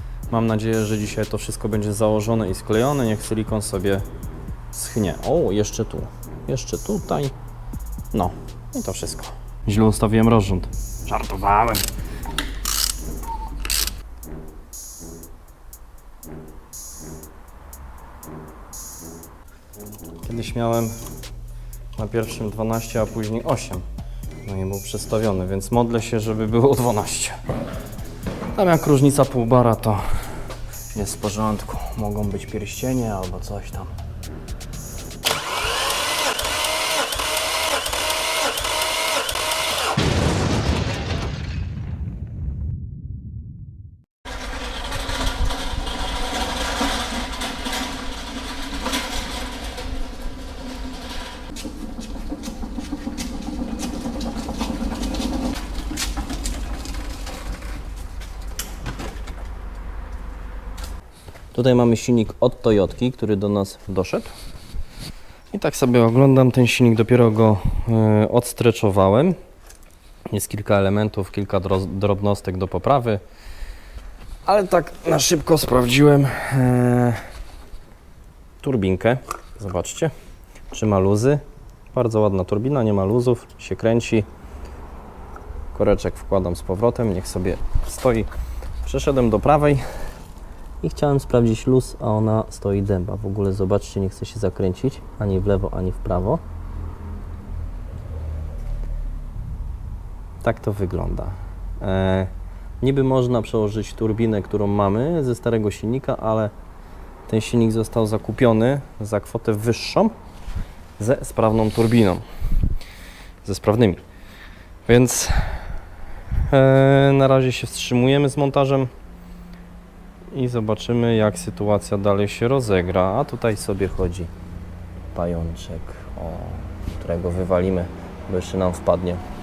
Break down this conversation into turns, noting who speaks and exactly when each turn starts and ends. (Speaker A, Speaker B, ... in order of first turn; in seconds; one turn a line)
Speaker A: 0.3-4.0
Speaker A: 4.7-7.3
Speaker A: 8.1-11.8
Speaker A: 20.2-20.9
Speaker A: 21.9-23.8
Speaker A: 24.4-27.4
Speaker A: 28.5-30.0
Speaker A: 30.9-33.9
Speaker A: 61.5-64.3
Speaker A: 65.5-69.4
Speaker A: 70.3-73.2
Speaker A: 74.5-77.2
Speaker A: 78.6-80.1
Speaker A: 80.7-84.3
Speaker A: 85.7-88.3
Speaker A: 88.8-89.8
Speaker A: 90.8-96.4
Speaker A: 100.4-106.5
Speaker A: 107.3-110.1
Speaker A: 111.0-112.2
Speaker A: 113.4-114.0
Speaker A: 114.9-115.7
Speaker A: 116.5-118.9
Speaker A: 120.3-124.3
Speaker A: 125.1-129.2